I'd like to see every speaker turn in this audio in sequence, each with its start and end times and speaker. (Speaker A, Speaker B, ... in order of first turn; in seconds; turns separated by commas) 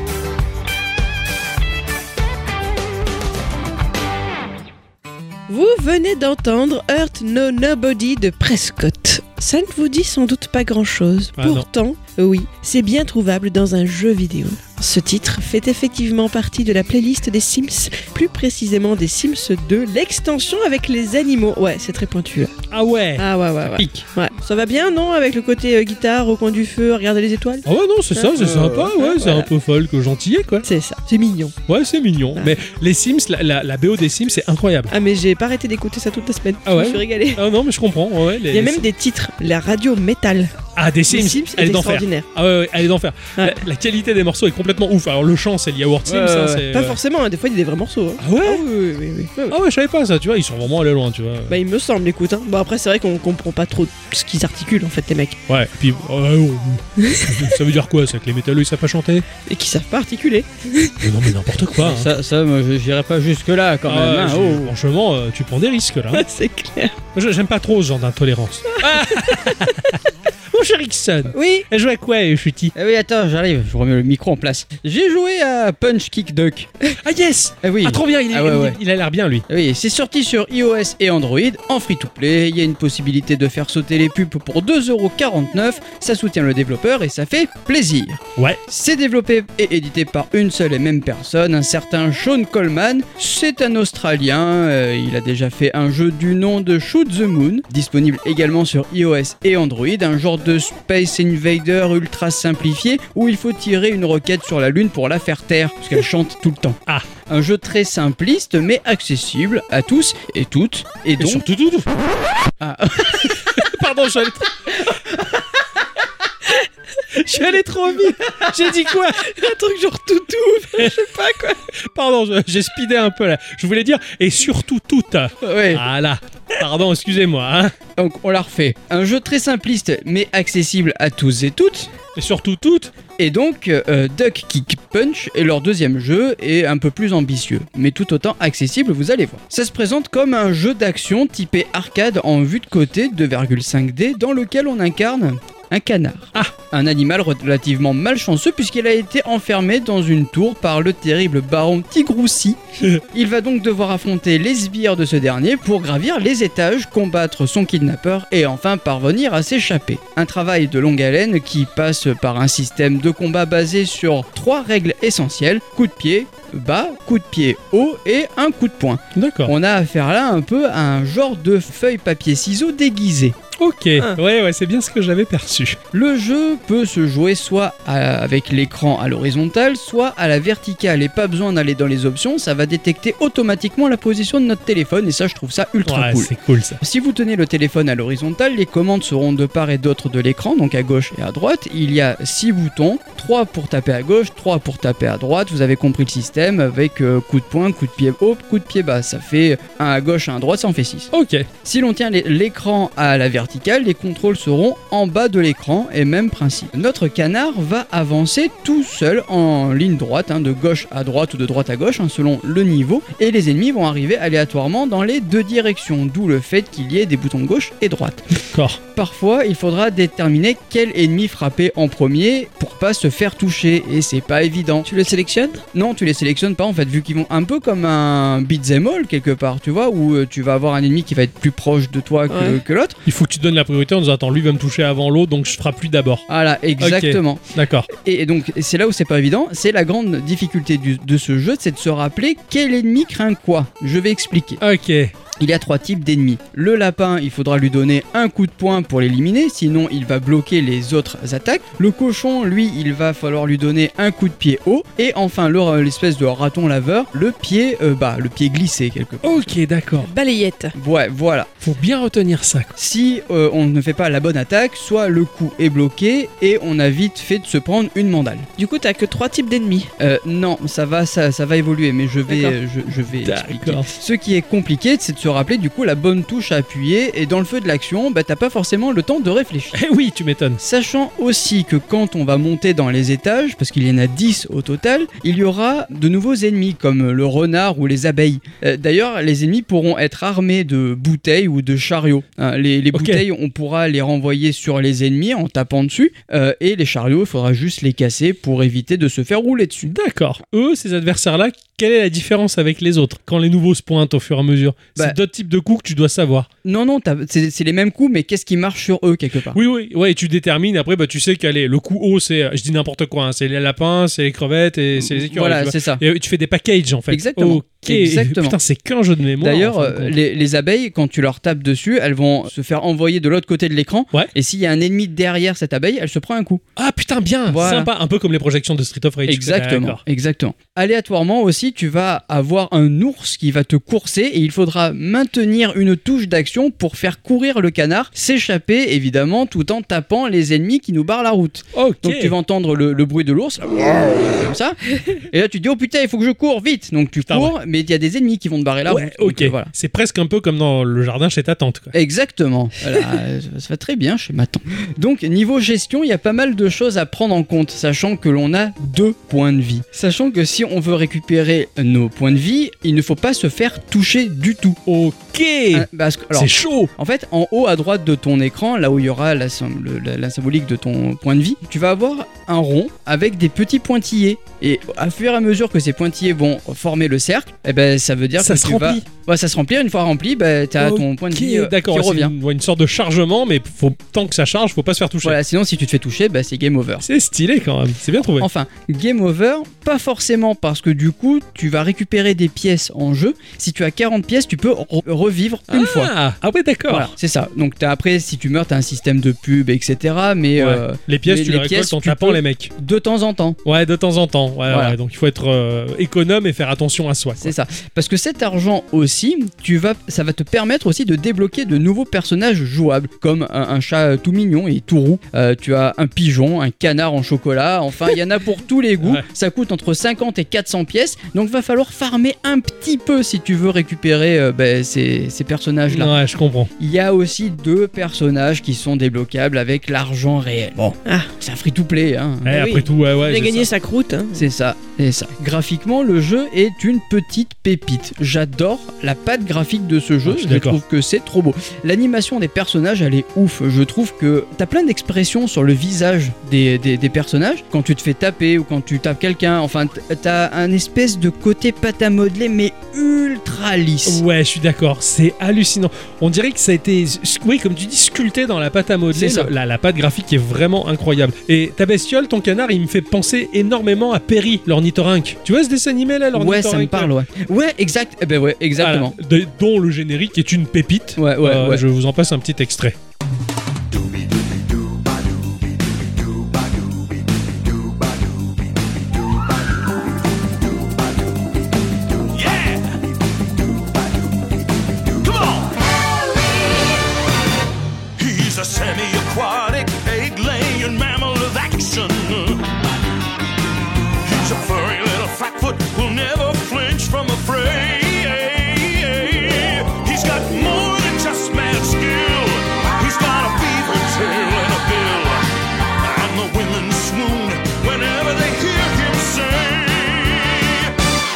Speaker A: 5.5-22.5, Speaker B: 11.4-11.7, Speaker B: 22.7-23.2, Speaker A: 23.2-29.5, Speaker C: 23.8-24.0, Speaker B: 27.7-30.7, Speaker C: 28.4-28.9, Speaker A: 30.6-31.6, Speaker B: 31.7-34.9, Speaker A: 34.9-37.4, Speaker B: 36.7-38.9, Speaker A: 38.5-40.5, Speaker B: 40.8-47.0, Speaker A: 41.1-42.3, Speaker C: 46.1-46.6, Speaker A: 46.7-49.6, Speaker B: 48.2-48.6, Speaker B: 49.5-51.6, Speaker A: 51.5-55.4, Speaker B: 55.5-59.2, Speaker A: 57.0-57.5, Speaker A: 59.5-61.0, Speaker B: 61.0-62.1, Speaker C: 61.8-64.7, Speaker B: 63.9-66.2, Speaker A: 66.1-67.0, Speaker B: 67.1-72.7, Speaker A: 68.8-69.8, Speaker C: 71.3-71.7, Speaker C: 72.7-76.7, Speaker B: 77.0-79.5, Speaker C: 77.6-78.8, Speaker C: 79.5-111.5, Speaker B: 111.2-111.9, Speaker C: 112.6-113.5, Speaker B: 113.5-114.9, Speaker B: 117.1-119.3, Speaker A: 119.2-121.6, Speaker B: 121.9-127.7, Speaker C: 125.4-125.8, Speaker C: 128.0-131.9, Speaker B: 132.2-132.9, Speaker C: 133.2-173.4, Speaker B: 169.2-169.5, Speaker B: 173.6-175.8, Speaker C: 175.9-201.1, Speaker B: 185.8-186.8, Speaker B: 201.1-201.5, Speaker C: 201.7-218.3, Speaker B: 218.5-218.8, Speaker C: 218.9-224.9, Speaker A: 224.9-225.6, Speaker C: 225.7-233.0, Speaker A: 232.3-232.6, Speaker B: 233.1-236.3, Speaker C: 236.3-237.4, Speaker B: 236.8-237.9, Speaker C: 237.9-244.6, Speaker B: 244.6-245.1, Speaker C: 245.4-259.5, Speaker B: 259.2-260.1, Speaker A: 260.0-260.8, Speaker C: 260.8-261.5, Speaker B: 261.6-262.7, Speaker C: 262.8-268.5, Speaker A: 268.6-269.9, Speaker C: 270.0-279.8, Speaker B: 273.2-273.9, Speaker B: 279.7-280.6, Speaker C: 280.6-299.9, Speaker B: 292.9-293.2, Speaker B: 299.9-306.5, Speaker C: 306.6-309.6, Speaker B: 309.5-320.2, Speaker C: 315.0-316.0, Speaker C: 317.1-318.6, Speaker C: 319.4-326.6, Speaker B: 326.8-330.0, Speaker C: 327.5-327.9, Speaker C: 329.3-349.7, Speaker B: 341.8-342.3, Speaker B: 347.3-347.5, Speaker B: 348.9-351.9, Speaker C: 351.9-364.8, Speaker B: 364.9-366.9, Speaker C: 365.7-382.3, Speaker B: 378.4-379.0, Speaker B: 380.8-385.4, Speaker C: 385.2-387.1, Speaker B: 387.0-388.5, Speaker C: 388.3-396.1, Speaker B: 395.7-397.1, Speaker C: 396.9-403.6, Speaker B: 400.6-402.7, Speaker B: 403.7-407.6, Speaker C: 404.7-405.0, Speaker C: 407.4-426.1, Speaker B: 425.9-426.7, Speaker C: 426.8-432.7, Speaker A: 431.1-431.3, Speaker B: 432.4-433.7, Speaker A: 432.5-434.5, Speaker C: 434.4-454.2, Speaker B: 440.3-440.8, Speaker B: 454.1-467.1, Speaker C: 459.1-459.5, Speaker C: 466.3-469.1, Speaker B: 468.8-473.0, Speaker C: 471.2-471.8, Speaker D: 482.3-483.0, Speaker D: 485.2-485.9, Speaker D: 488.2-492.8, Speaker D: 494.2-505.5, Speaker D: 506.0-510.9